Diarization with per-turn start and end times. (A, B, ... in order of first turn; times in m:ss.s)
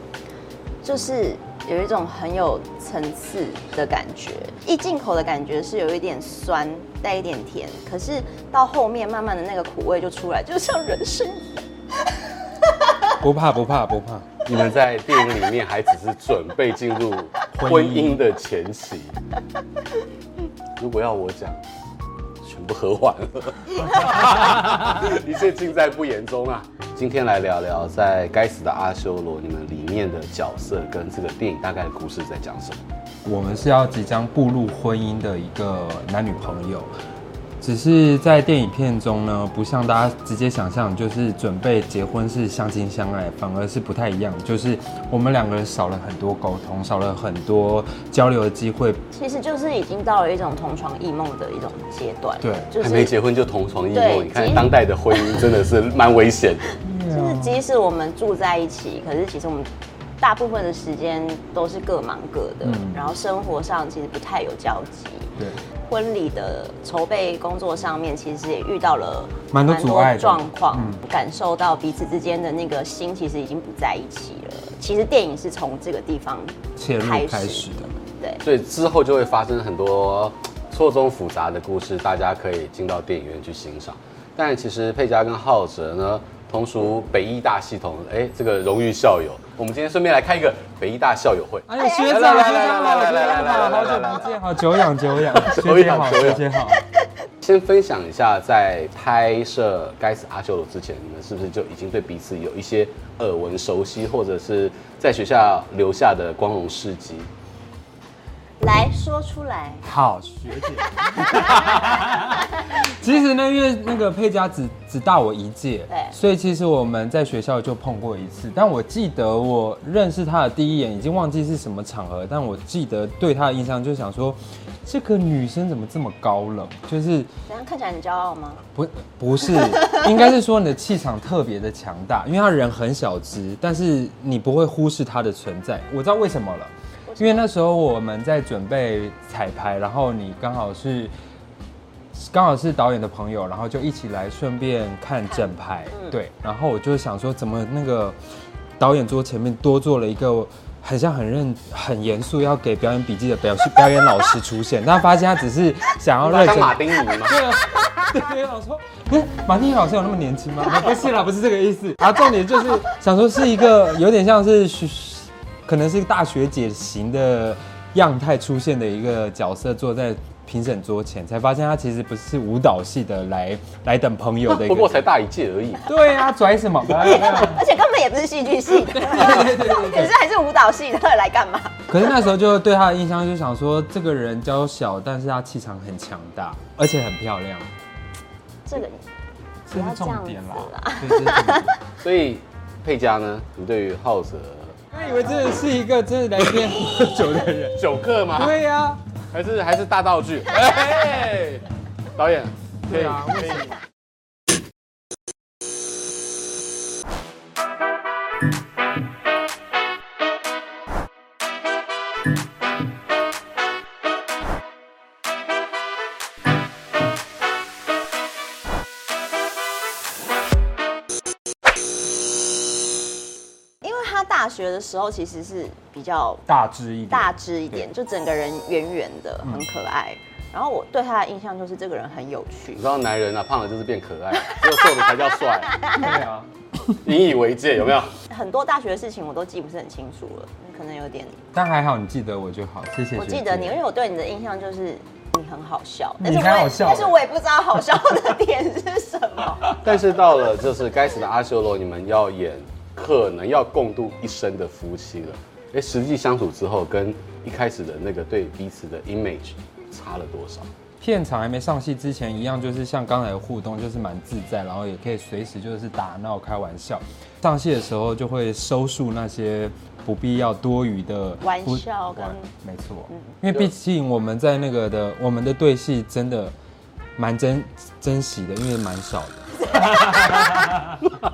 0:00.8-0:13.1 A
0:13.2-0:14.3 B
0:14.4-0:19.2 C
0:17.5-0:18.2 B
0:20.8-0:21.6 C
0:22.4-0:32.8 C
0:33.2-0:36.9 B
0:37.6-0:49.0 B
0:49.1-0:53.1 A
0:52.4-0:52.7 B
0:52.8-0:56.8 C
0:53.9-0:54.7 A
0:56.8-0:57.6 B
0:57.1-0:59.7 A
1:00.2-1:05.3 A
1:02.6-1:03.1 B
1:05.9-1:18.4 A
1:09.5-1:11.0 B
1:16.8-1:17.9 B
1:18.4-1:34.4 C
1:31.7-1:36.8 B
1:31.8-1:34.0 A
1:35.2-1:36.5 C
1:37.4-1:47.3 C
1:48.6-1:49.8 A
1:49.8-2:07.3 B
1:51.0-1:52.4 A
1:55.9-1:56.2 A
2:07.5-2:08.6 A
2:08.7-2:21.1 B
2:17.1-2:17.5 A
2:22.1-2:28.2 B
2:25.3-2:26.2 A
2:28.8-2:55.0 B
2:36.2-2:37.4 C
2:54.5-2:55.9 C
2:55.8-2:57.6 B
2:56.9-3:01.9 A
2:58.8-3:00.2 B
3:01.9-3:07.7 B
3:08.6-3:09.0 A
3:09.7-3:11.7 B
3:09.7-3:11.7 A
3:12.0-3:14.8 C
3:14.9-3:15.4 A
3:14.9-3:19.0 B
3:17.7-3:18.6 C
3:19.3-3:23.7 C
3:22.9-3:23.8 B
3:43.8-3:46.4 A
3:46.5-3:47.8 B
3:47.1-3:52.8 A
3:52.7-3:55.8 C
3:55.7-3:56.1 A
3:55.9-3:57.0 B
3:57.0-3:58.1 C
3:58.3-4:01.4 A
4:01.5-4:03.8 B
4:03.2-4:09.8 A
4:06.2-4:07.2 B
4:09.8-4:20.7 C
4:21.0-4:36.5 B
4:31.4-4:32.5 A
4:37.2-4:41.0 B
4:39.6-4:40.8 A